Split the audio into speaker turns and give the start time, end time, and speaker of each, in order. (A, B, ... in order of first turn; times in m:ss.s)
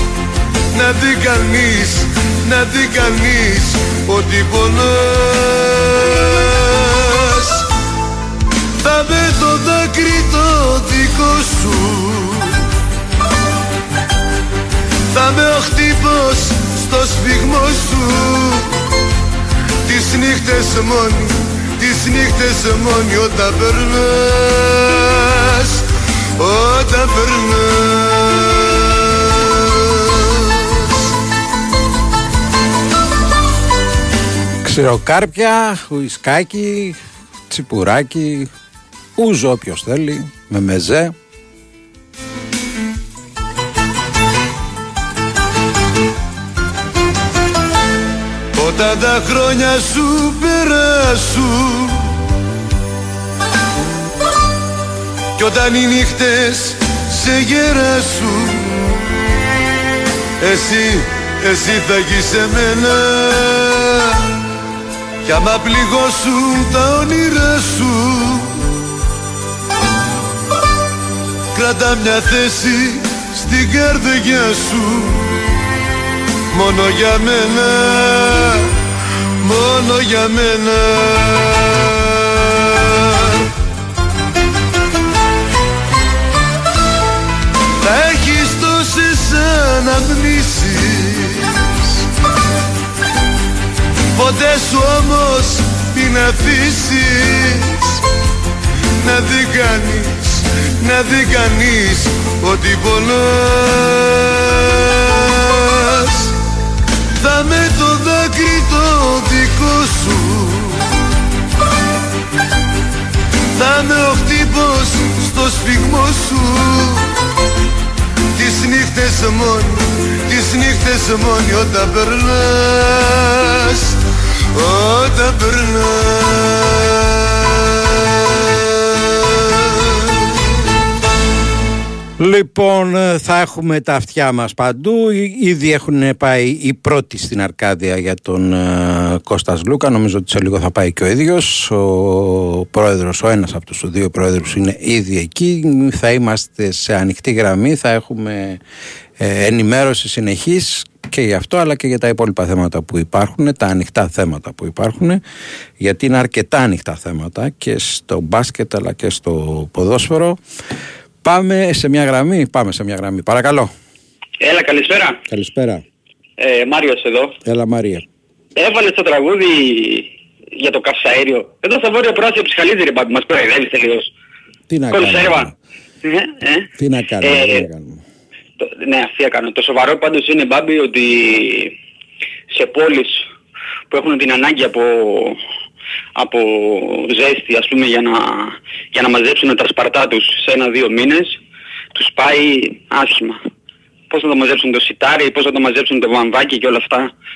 0:00.7-0:07.6 A
0:08.8-0:12.6 A
0:15.1-0:18.7 A
0:19.8-0:25.8 A
0:26.4-0:30.9 A
0:34.6-0:37.0 B
0:37.5-0:38.5 B
0:39.2-0:41.1 B
0:48.5-0:52.1 A
0:55.4-0:58.8 A
1:00.4-1:04.2 A
1:05.2-1:08.6 A
1:11.5-1:15.3 A
1:16.5-1:18.7 A
1:19.4-1:23.3 A
1:27.8-1:31.6 A
1:34.1-1:38.0 A
1:39.0-1:46.3 A
1:47.2-1:50.9 A
1:53.6-1:57.1 A
1:58.3-2:04.0 A
2:04.5-2:10.3 A
2:12.2-2:28.6 B
2:29.2-2:35.2 B
2:35.8-2:40.4 B
2:41.2-2:43.7 B
2:44.4-2:45.2 C
2:45.3-2:45.8 B
2:46.4-2:47.4 C
2:47.4-2:48.0 B
2:48.6-2:54.1 C
2:54.7-2:55.5 B
2:54.9-2:55.5 C
2:56.0-2:56.7 C
2:56.8-2:58.0 B
2:57.2-2:57.6 C
2:58.6-3:01.8 C
3:02.5-3:03.2 C
3:03.9-3:05.4 C
3:06.2-3:11.4 C
3:11.9-3:13.4 C
3:14.1-3:17.1 C